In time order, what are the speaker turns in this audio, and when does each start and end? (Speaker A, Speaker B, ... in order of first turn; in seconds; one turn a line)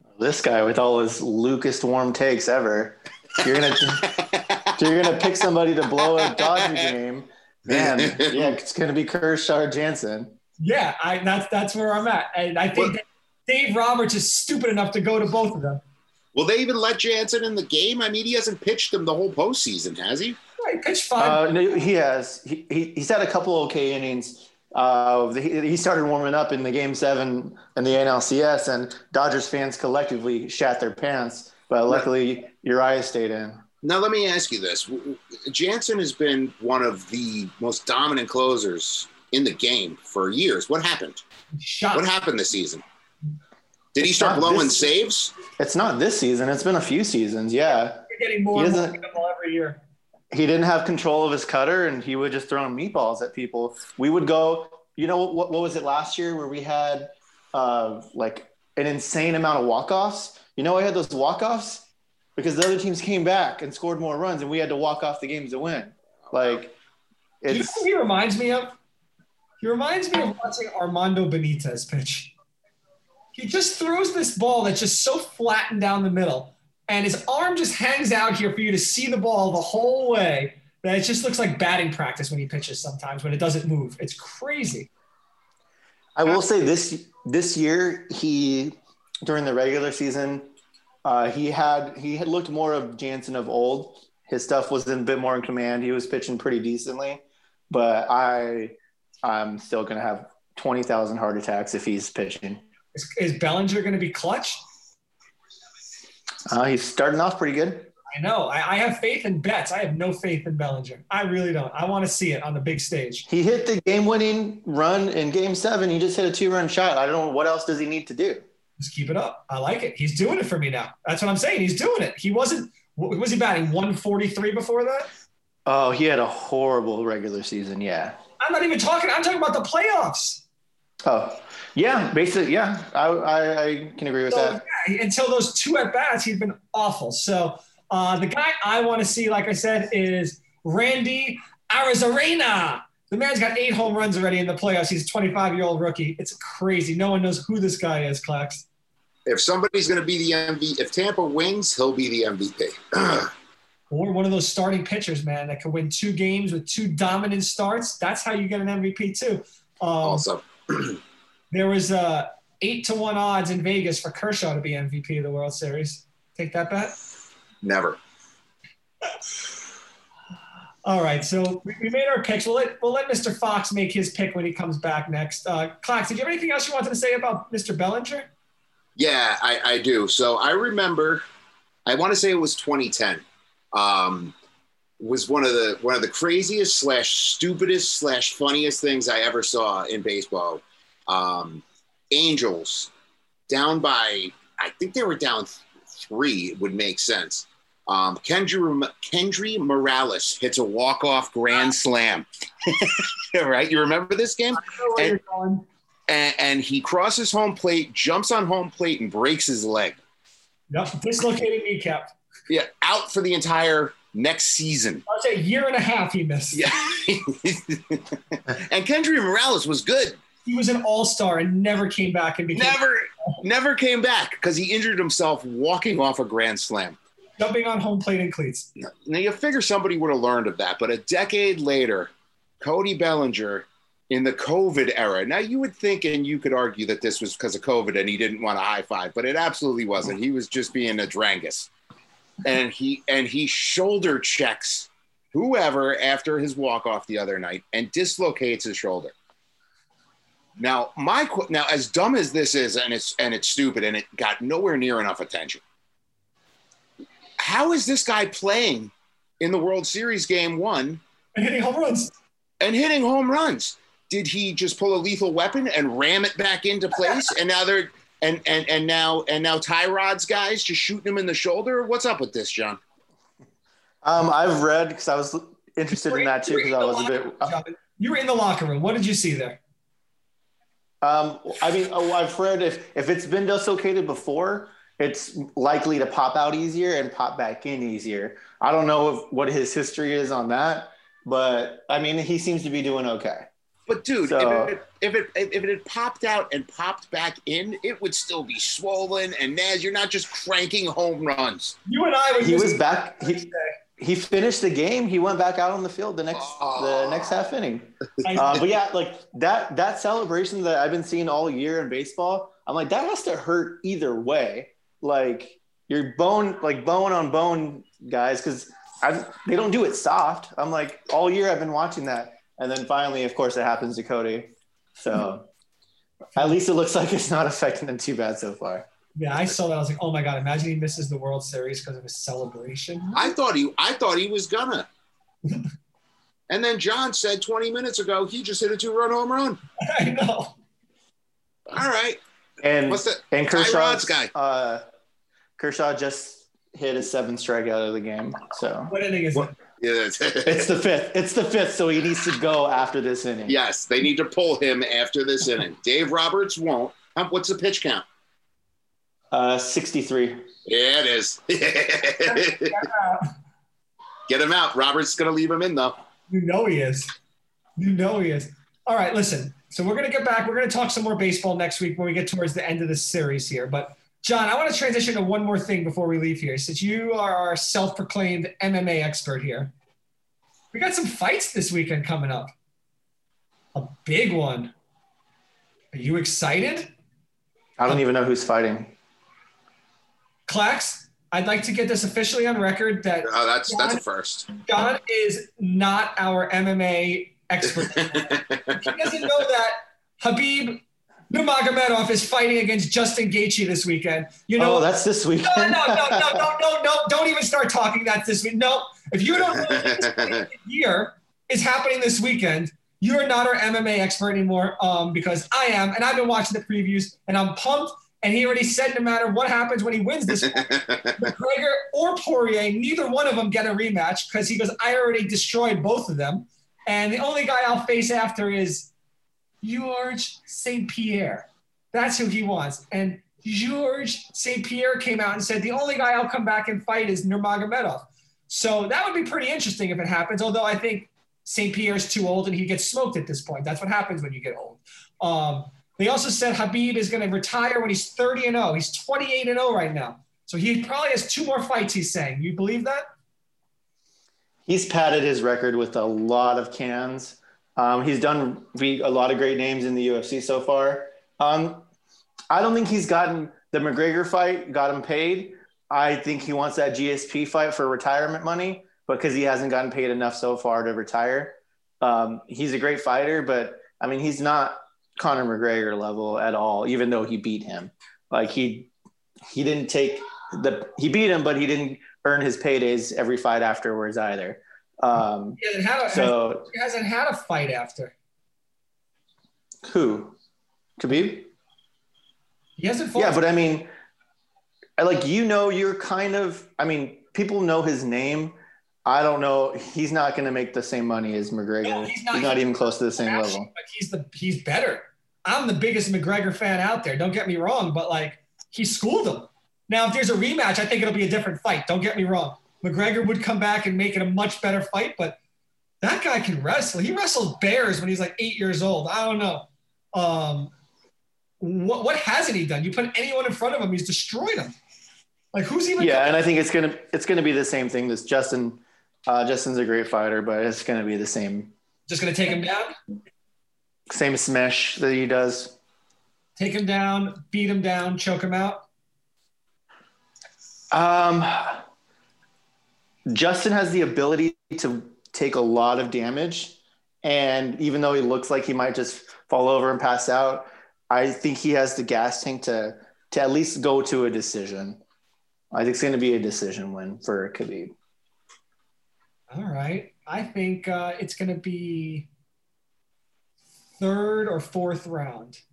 Speaker A: 0.2-4.2
Speaker B: 4.0-4.7
Speaker A: 4.7-10.3
Speaker B: 6.2-6.9
Speaker B: 7.7-8.5
Speaker C: 10.6-15.8
Speaker B: 16.3-20.4
Speaker C: 20.6-21.5
Speaker A: 21.2-33.6
Speaker B: 33.8-41.2
Speaker C: 41.5-42.1
Speaker B: 41.9-42.8
Speaker B: 43.9-45.3
Speaker A: 44.0-44.9
Speaker A: 45.6-49.0
Speaker C: 48.1-49.8
Speaker A: 50.3-66.8
Speaker A: 67.4-67.8
Speaker C: 67.5-68.8
Speaker C: 69.6-72.3
Speaker C: 73.3-84.9
Speaker A: 86.2-90.5
Speaker A: 91.0-102.6
Speaker C: 102.9-104.6
Speaker A: 106.5-107.9
Speaker C: 108.1-113.2
Speaker A: 113.3-118.4
Speaker C: 118.8-125.1
Speaker A: 125.7-128.2
Speaker C: 128.4-130.4
Speaker A: 131.0-134.6
Speaker C: 134.3-148.7
Speaker B: 149.2-153.3
Speaker C: 153.9-160.2
Speaker B: 160.0-161.0
Speaker C: 161.5-166.9
Speaker B: 167.6-168.0
Speaker C: 170.8-178.3
Speaker B: 179.0-181.2
Speaker B: 181.8-184.3
Speaker B: 185.0-192.9
Speaker B: 193.5-205.2
Speaker C: 204.5-205.6
Speaker B: 206.1-210.0
Speaker C: 210.7-212.1
Speaker B: 212.5-215.0
Speaker C: 215.1-216.6
Speaker B: 216.5-220.2
Speaker C: 220.4-222.8
Speaker B: 222.5-227.0
Speaker C: 227.4-228.7
Speaker B: 228.8-241.7
Speaker B: 242.4-249.1
Speaker B: 250.6-255.6
Speaker B: 257.4-261.0
Speaker C: 261.3-262.1
Speaker B: 262.6-272.8
Speaker A: 274.0-277.5
Speaker C: 275.9-279.6
Speaker A: 281.0-293.5
Speaker B: 293.9-301.8
Speaker A: 294.2-294.8
Speaker C: 301.9-303.7
Speaker A: 302.4-325.5
Speaker B: 306.3-307.4
Speaker C: 308.2-308.6
Speaker A: 326.4-328.8
Speaker C: 329.1-333.3
Speaker B: 333.1-334.9
Speaker B: 336.5-339.6
Speaker C: 339.8-340.5
Speaker B: 341.7-342.2
Speaker A: 342.6-344.8
Speaker B: 342.9-344.3
Speaker A: 345.6-348.9
Speaker C: 348.9-349.5
Speaker B: 349.4-350.7
Speaker A: 350.4-353.6
Speaker B: 353.5-358.0
Speaker A: 359.3-360.4
Speaker B: 360.6-362.8
Speaker C: 362.3-363.3
Speaker B: 364.3-365.9
Speaker C: 366.3-367.1
Speaker C: 367.8-379.7
Speaker C: 380.7-382.5
Speaker C: 383.7-384.7
Speaker C: 385.9-386.9
Speaker A: 387.8-388.9
Speaker C: 390.5-394.0
Speaker B: 393.2-394.5
Speaker C: 394.5-404.9
Speaker B: 398.0-398.9
Speaker A: 404.6-406.5
Speaker C: 405.4-428.9
Speaker B: 409.6-410.4
Speaker B: 420.5-421.3
Speaker C: 429.6-453.0
Speaker A: 454.7-461.8
Speaker A: 462.5-478.9
Speaker A: 479.4-486.6
Speaker C: 485.6-488.1
Speaker A: 489.9-490.4
Speaker A: 491.0-491.5
Speaker C: 492.8-493.4
Speaker A: 493.1-493.9
Speaker A: 495.0-503.7
Speaker C: 501.8-515.4
Speaker C: 516.0-520.7
Speaker C: 521.6-524.7
Speaker C: 525.5-526.4
Speaker A: 526.0-531.7
Speaker C: 532.1-532.9
Speaker A: 534.1-535.8
Speaker C: 536.6-538.8
Speaker A: 540.9-541.8
Speaker A: 543.3-555.0
Speaker A: 555.7-557.9
Speaker C: 559.5-562.3
Speaker C: 564.0-565.6